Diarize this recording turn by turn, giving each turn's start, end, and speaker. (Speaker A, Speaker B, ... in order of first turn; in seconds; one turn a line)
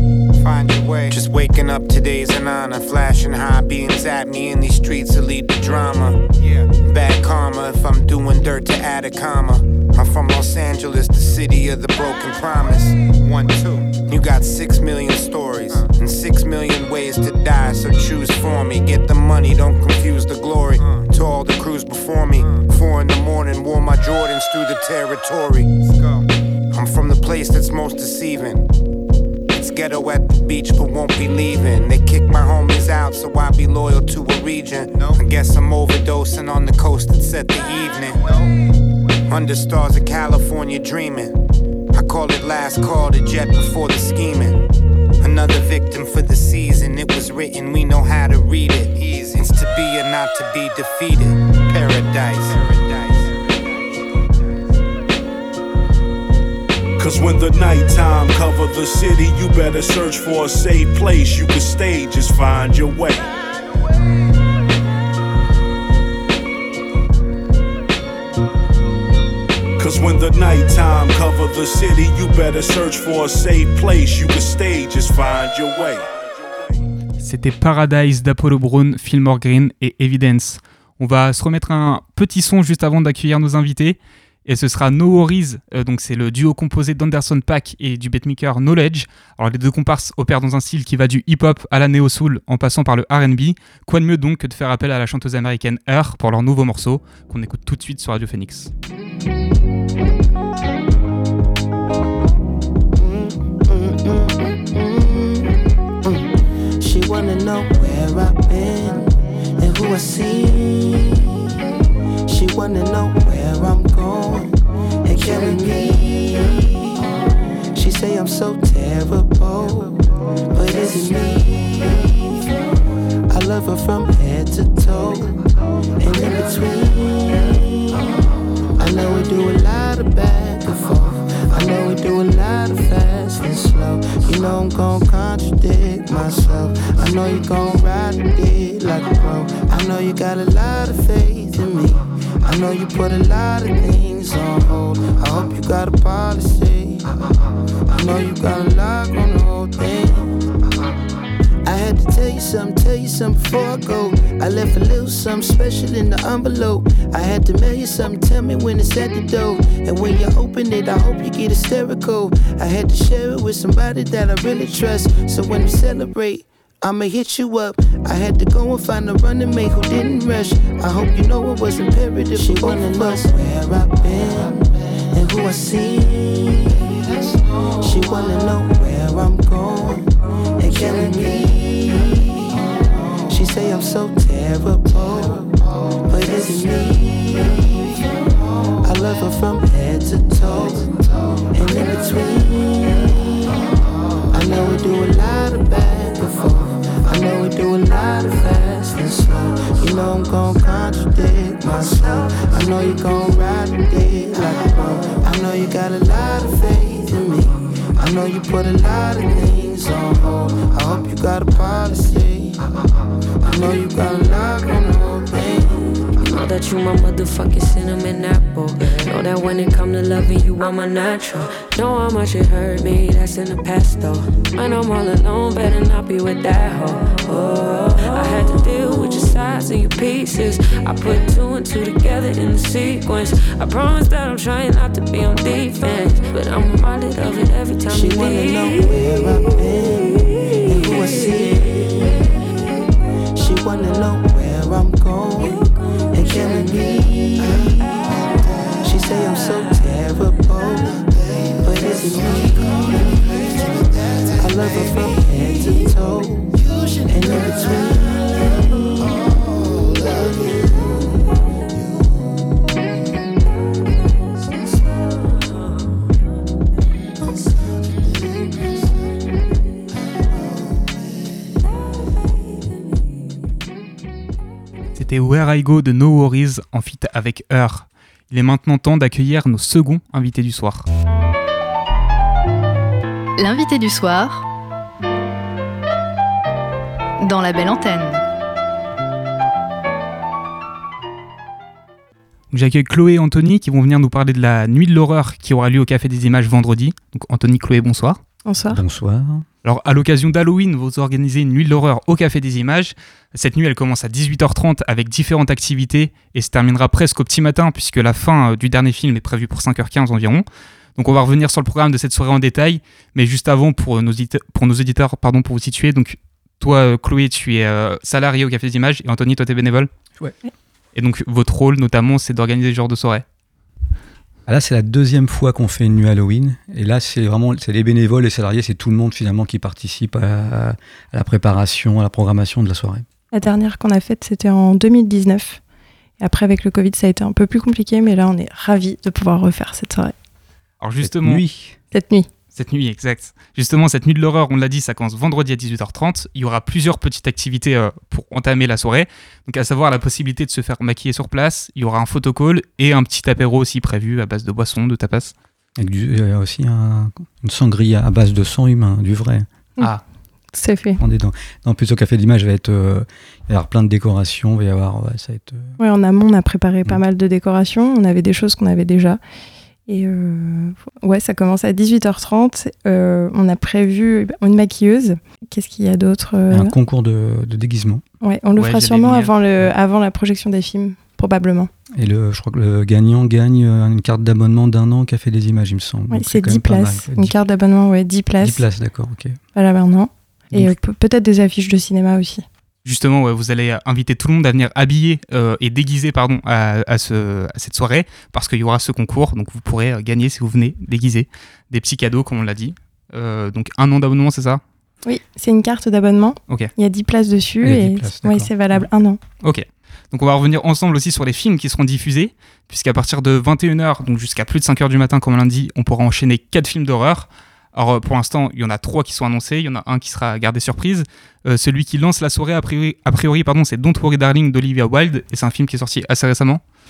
Speaker A: 0.3-28.7
Speaker A: 29.5-38.5
Speaker A: 39.3-41.4
Speaker A: 41.9-44.6
Speaker A: 45.2-54.3
Speaker B: 57.0-63.3
Speaker B: 69.8-76.1
Speaker C: 77.2-98.7
Speaker D: 103.0-106.3
Speaker D: 106.8-111.3
Speaker D: 112.3-117.0
Speaker D: 117.7-122.5
Speaker D: 123.3-128.1
Speaker D: 128.8-147.1
Speaker D: 147.9-150.4
Speaker D: 151.7-177.0
Speaker D: 177.8-180.1
Speaker D: 180.6-182.3
Speaker D: 183.3-188.1
Speaker D: 188.8-193.3
Speaker D: 194.3-212.6
Speaker D: 213.4-215.8
Speaker E: 216.2-239.1
Speaker D: 237.9-242.3
Speaker D: 243.3-247.7
Speaker D: 248.8-251.0
Speaker D: 251.6-258.4
Speaker C: 274.9-280.9
Speaker F: 283.4-284.5
Speaker F: 287.2-288.2
Speaker C: 292.5-298.2
Speaker G: 298.5-298.8
Speaker H: 298.7-299.5
Speaker C: 299.6-310.4
Speaker C: 311.0-319.9
Speaker C: 320.9-323.2
Speaker H: 324.5-333.1
Speaker G: 333.3-335.6
Speaker G: 336.2-340.1
Speaker C: 340.8-341.4
Speaker H: 341.0-341.8
Speaker G: 341.9-342.3
Speaker C: 342.5-355.3
Speaker H: 355.8-359.5
Speaker G: 360.5-361.0
Speaker H: 361.0-365.8
Speaker G: 365.8-369.2
Speaker G: 369.9-376.7
Speaker H: 376.5-378.0
Speaker G: 378.2-381.7
Speaker C: 378.6-379.4
Speaker H: 382.0-387.4
Speaker G: 386.1-388.6
Speaker H: 388.4-389.4
Speaker G: 389.6-392.4
Speaker C: 392.9-404.6
Speaker G: 405.1-409.2
Speaker H: 407.6-408.9
Speaker C: 409.4-426.6